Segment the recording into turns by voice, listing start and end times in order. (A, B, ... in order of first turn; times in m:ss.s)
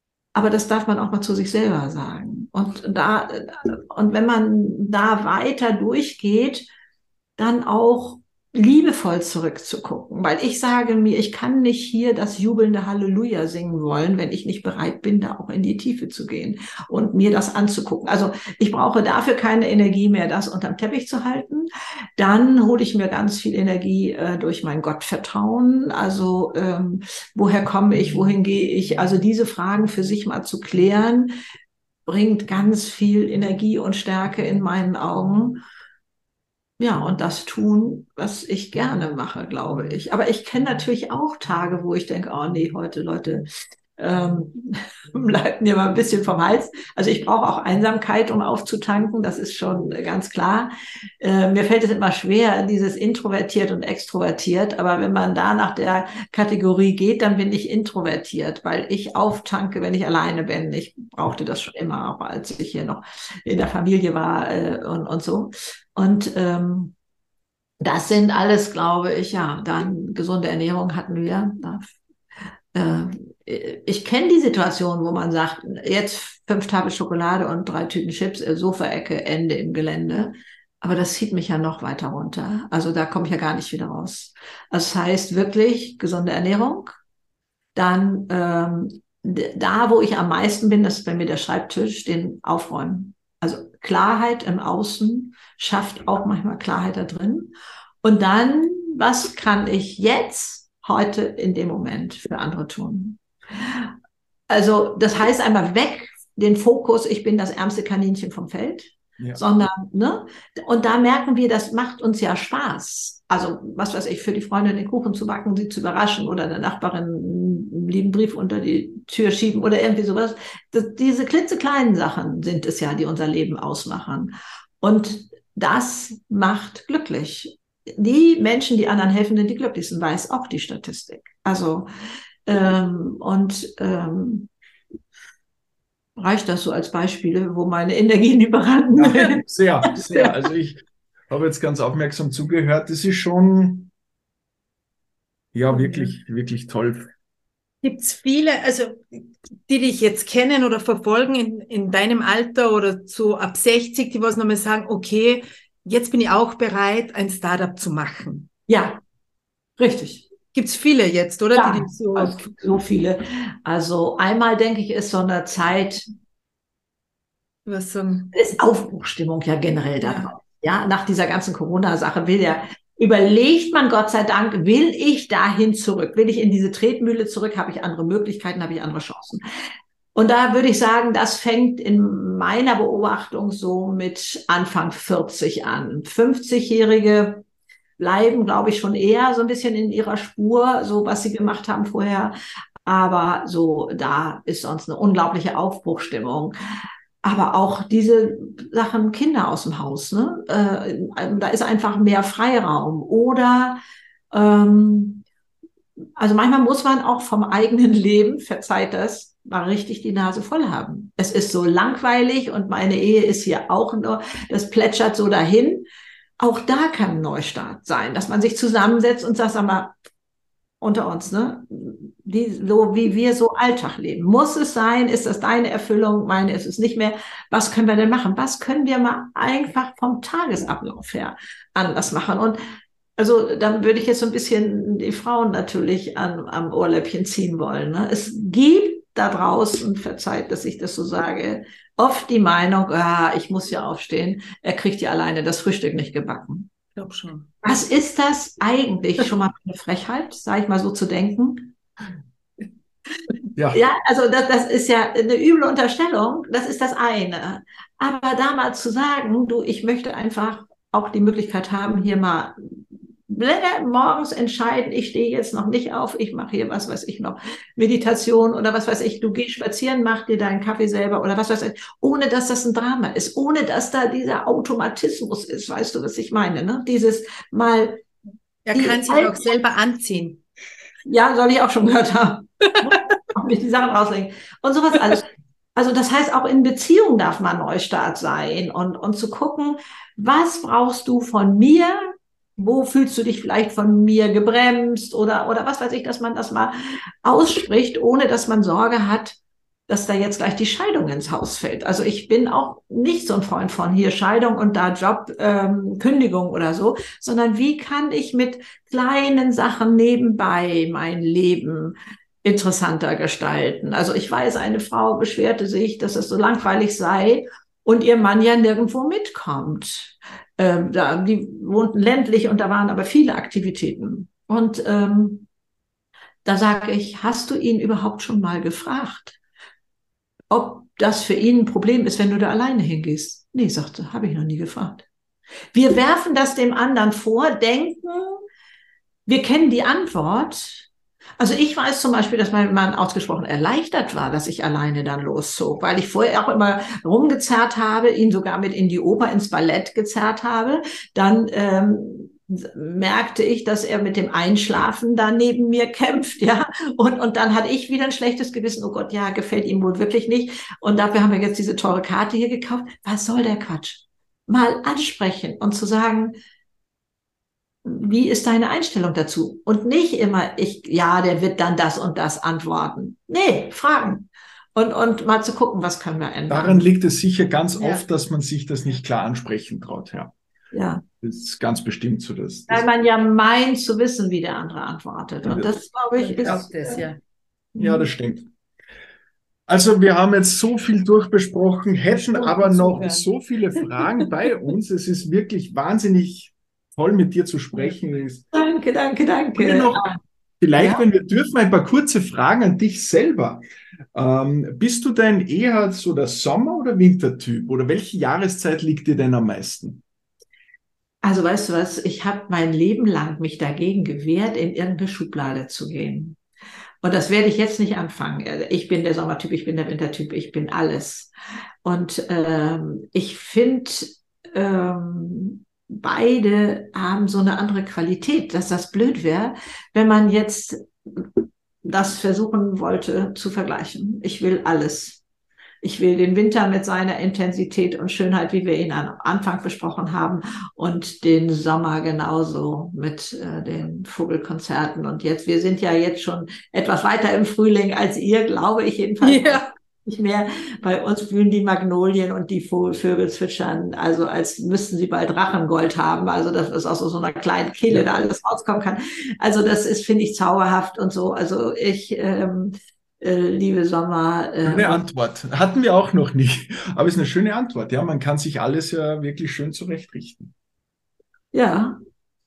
0:00.4-0:06.7 A
0:07.4-0:31.4 A
0:32.1-0:35.6 A
0:36.8-1:06.9 A
1:07.8-1:12.0 A
1:12.7-1:27.0 A
1:27.8-1:43.9 A
1:44.5-2:11.9 A
2:12.5-2:14.5 A
2:16.2-2:19.4 A
2:19.0-2:23.9 B
2:25.5-2:27.1 B
2:25.7-2:26.1 C
2:27.8-2:38.5 C
2:38.7-2:39.0 A
2:39.8-2:40.3 A
2:40.5-2:42.5 C
2:41.6-2:46.0 A
2:47.7-2:48.3 C
2:48.3-2:59.4 A
2:50.0-2:50.3 C
3:00.2-3:07.4 A
3:08.0-3:16.6 A
3:17.2-3:23.8 A
3:24.3-3:25.2 A
3:26.2-3:35.9 A
3:36.4-3:40.0 A
3:40.8-3:52.6 A
3:53.2-4:06.7 A
4:07.0-4:07.5 C
4:07.6-4:11.7 A
4:13.6-4:13.8 B
4:13.7-4:38.0 A
4:38.6-4:40.4 C
4:38.7-4:39.4 A
4:41.1-5:25.5 A
5:26.4-5:29.4 A
5:30.5-5:35.1 A
5:35.7-5:38.4 A
5:39.3-6:06.4 A
6:07.8-6:16.9 A
6:16.5-6:20.3 B
6:20.7-6:21.0 A
6:21.2-6:22.9 B
6:22.7-6:27.1 A
6:26.2-6:27.2 C
6:27.8-6:28.1 A
6:27.8-6:28.5 B
6:29.7-6:38.4 B
6:32.3-6:33.2 C
6:33.8-6:34.3 C
6:38.5-6:40.2 A
6:39.6-6:40.1 B
6:40.6-6:43.6 B
6:44.1-6:50.0 B
6:51.2-6:56.4 A
6:57.0-7:01.3 A
7:01.8-7:11.3 A
7:11.8-7:15.2 A
7:15.8-7:45.0 A
7:29.2-7:29.7 C
7:44.6-7:50.5 B
7:51.5-7:52.0 A